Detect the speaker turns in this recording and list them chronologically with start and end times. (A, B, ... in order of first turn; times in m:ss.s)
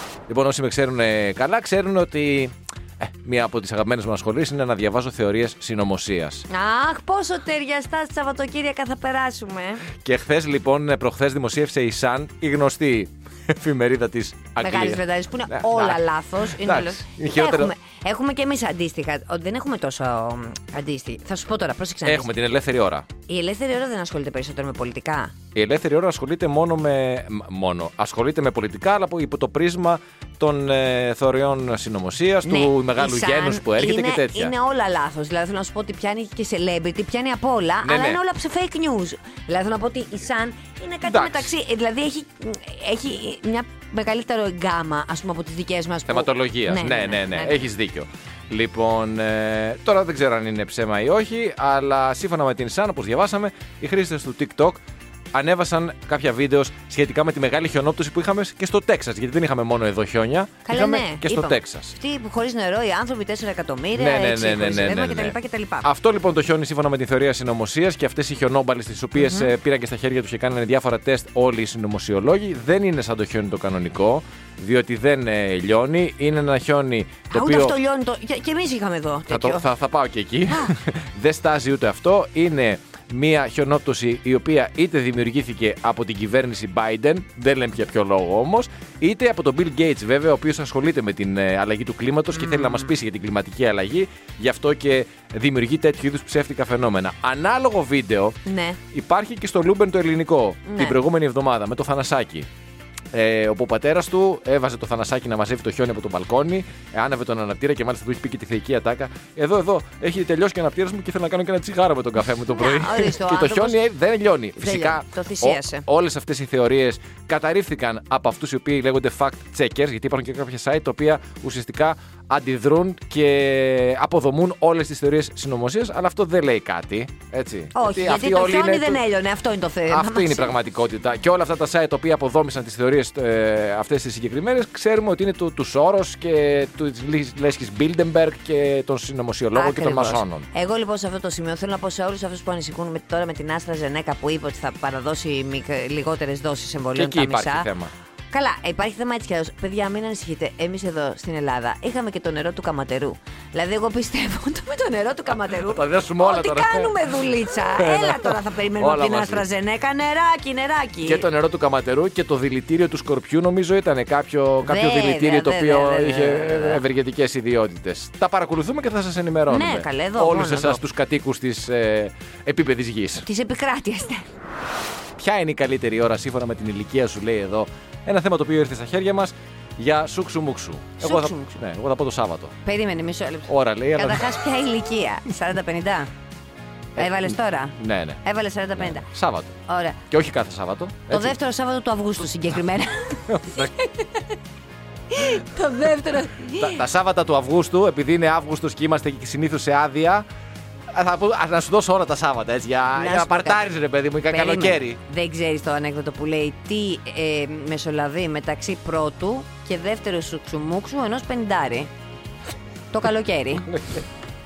0:00.3-0:06.5 A
0:06.5-0:09.9 B
0:10.0-0:17.7 A
0:14.6-0:22.3 B
0:22.0-0:23.1 A
0:23.3-0:25.4 B
0:25.5-0:34.6 A
0:32.4-0:47.6 B
0:37.8-0:38.2 A
0:41.0-0:41.5 A
0:46.1-0:54.8 A
0:55.3-1:02.0 A
1:00.6-1:05.9 B
1:04.0-1:17.8 A
1:09.2-1:09.5 B
1:17.3-1:19.7 B
1:19.3-1:38.4 A
1:32.3-1:32.9 B
1:38.4-1:38.8 B
1:38.9-1:42.5 A
1:40.7-1:41.0 B
1:43.1-2:09.0 A
1:52.5-1:53.8 B
1:54.6-1:55.8 B
2:07.7-2:10.6 B
2:09.9-2:20.5 A
2:19.5-2:27.7 B
2:27.0-2:27.9 A
2:28.3-2:41.3 B
2:35.5-2:39.5 A
2:41.0-2:53.3 A
2:44.6-2:46.8 B
2:49.5-2:50.8 B
2:53.2-2:54.3 B
2:55.2-3:02.5 A
3:01.0-3:01.6 B
3:02.6-3:06.1 B
3:03.5-3:04.4 A
3:07.0-3:08.2 A
3:07.0-3:09.1 B
3:08.8-3:09.6 A
3:09.7-3:10.0 B
3:10.1-3:11.4 A
3:11.1-3:14.3 B
3:13.3-3:13.7 A
3:15.1-3:16.8 B
3:16.6-3:20.2 A
3:20.9-3:25.0 A
3:23.0-3:23.6 B
3:24.3-3:31.9 B
3:32.9-3:33.7 B
3:33.7-3:34.0 A